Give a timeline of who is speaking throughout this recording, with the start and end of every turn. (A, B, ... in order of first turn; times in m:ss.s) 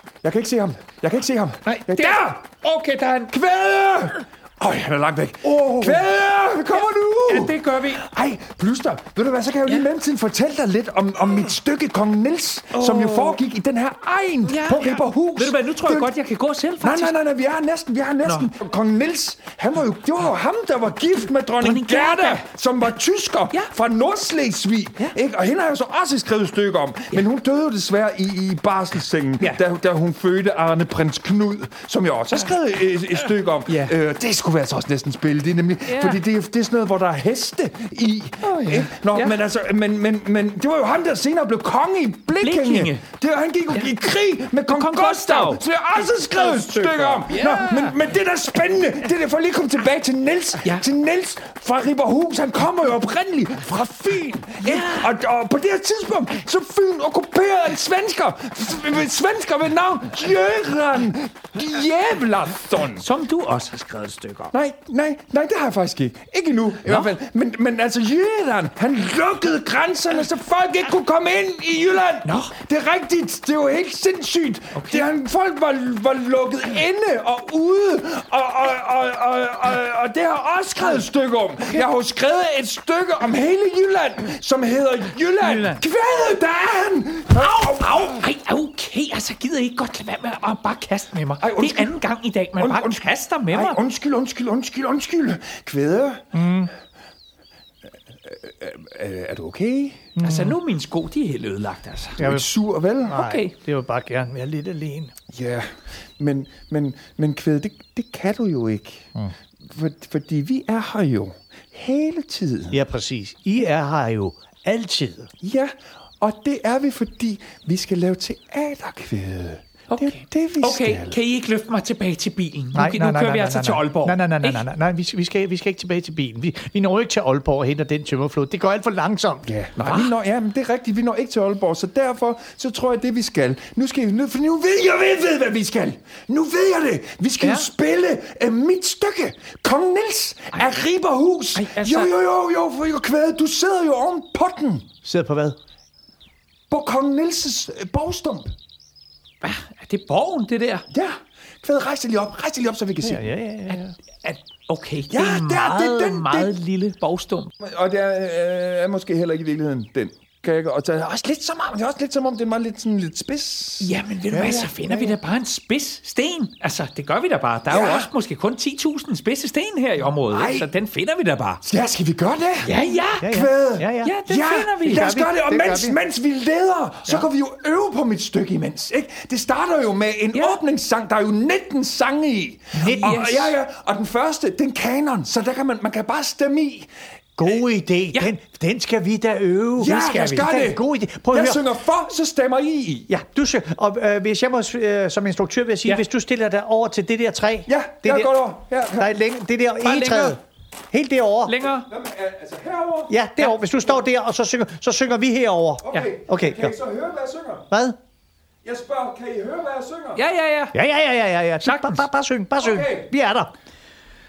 0:00.2-0:02.4 A
0:01.6-0:03.3 B
0:03.3-0:16.1 A
0:05.4-0:06.0 B
0:06.7-0:08.0 B
0:12.7-0:13.4 B
0:14.4-0:17.2 B
0:16.8-1:03.0 A
0:18.2-0:18.5 B
0:21.6-0:22.4 B
0:33.7-0:33.9 B
0:35.9-0:36.2 B
0:38.4-0:39.4 B
0:42.4-0:43.0 B
0:44.7-0:48.0 B
0:54.6-0:55.1 B
1:03.0-1:04.5 B
1:04.5-1:28.2 A
1:06.8-1:07.1 B
1:12.2-1:12.5 B
1:14.8-1:15.1 B
1:25.4-1:25.8 B
1:27.4-1:33.8 B
1:31.4-1:32.0 A
1:32.6-1:36.3 A
1:36.3-1:36.7 C
1:38.2-1:40.1 A
1:40.2-1:40.6 C
1:40.2-1:42.3 B
1:42.2-1:43.2 A
1:42.2-1:45.1 C
1:43.1-1:43.5 B
1:45.3-1:45.7 A
1:46.2-1:52.8 A
1:52.7-1:55.3 C
1:55.4-2:01.2 A
1:59.9-2:04.6 B
2:02.7-2:09.5 C
2:09.4-2:24.9 A
2:09.8-2:10.1 B
2:17.4-2:17.7 B
2:21.6-2:22.1 B
2:25.0-2:25.6 C
2:26.7-2:28.5 A
2:29.4-2:30.9 B
2:30.9-2:33.3 A
2:33.0-2:33.9 C
2:33.7-2:37.5 B
2:35.1-2:36.5 A
2:37.6-2:44.9 A
2:43.8-2:51.6 B
2:44.3-2:45.2 C
2:47.7-2:48.1 A
2:50.2-2:50.7 A
2:51.6-2:52.7 A
2:52.6-2:53.3 B
2:53.2-2:54.2 C
2:53.3-3:06.9 A
2:54.0-2:55.3 B
2:54.8-2:56.0 C
3:00.3-3:00.6 B
3:02.7-3:03.5 B
3:02.8-3:03.0 C
3:07.4-3:11.7 C
3:09.8-3:13.1 A
3:10.0-3:10.6 B
3:13.1-3:18.3 C
3:17.7-3:19.1 A
3:18.9-3:21.6 C
3:19.8-3:20.4 B
3:21.5-3:21.9 B
3:21.8-3:23.2 A
3:23.1-3:26.8 C
3:25.8-3:27.7 A
3:27.7-3:28.0 C
3:28.6-3:30.3 A
3:30.2-3:30.8 B
3:30.7-3:33.5 C
3:31.6-3:32.1 B
3:32.6-3:33.1 A